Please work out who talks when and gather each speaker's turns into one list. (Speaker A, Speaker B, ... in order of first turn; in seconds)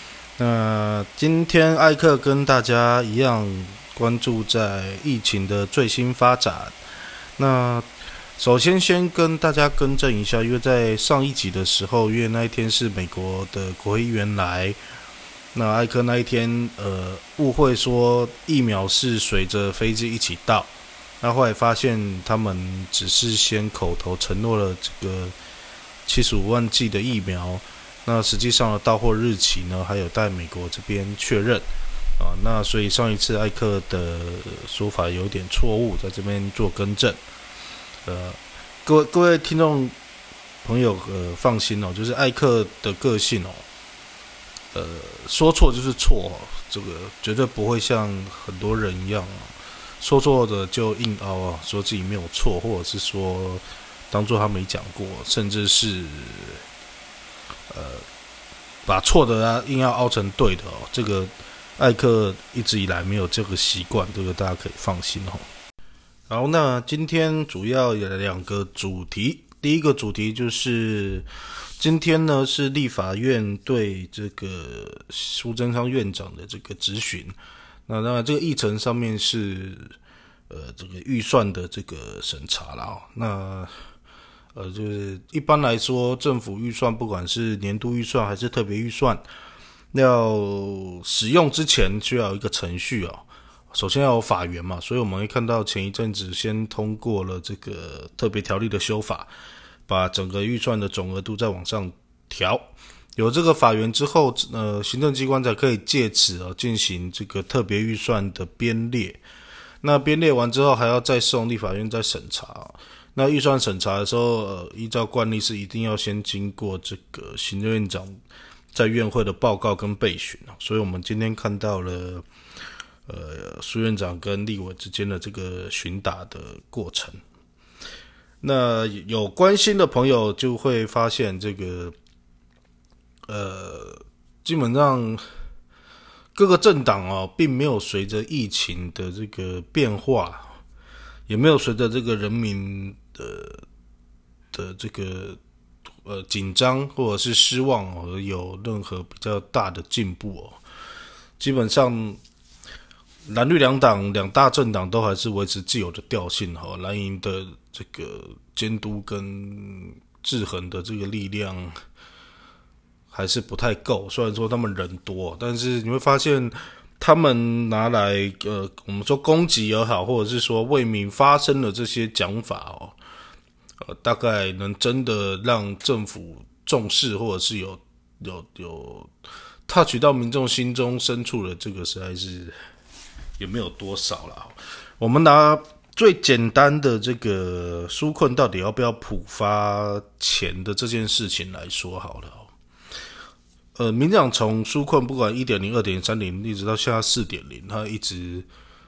Speaker A: 0.4-6.8, 7.4-7.9, 8.4-14.8, 15.5-25.3, 26.1-31.6, 32.2-37.2, 38.0-39.9, 40.6-43.6, 44.7-56.6, 57.7-58.0, 58.9-65.5, 66.3-77.3, 77.9-79.9, 80.5-83.7, 84.5-89.2, 89.9-99.3, 99.9-109.2, 109.8-118.1, 118.7-122.2, 123.1-127.2, 128.4-131.9, 133.3-135.2, 136.3-140.5, 141.3-143.6, 144.5-145.4, 146.0-150.6, 151.4-152.2, 153.3-161.8, 163.1-172.9, 173.8-179.1, 179.7-182.5, 183.4-192.5, 193.8-198.4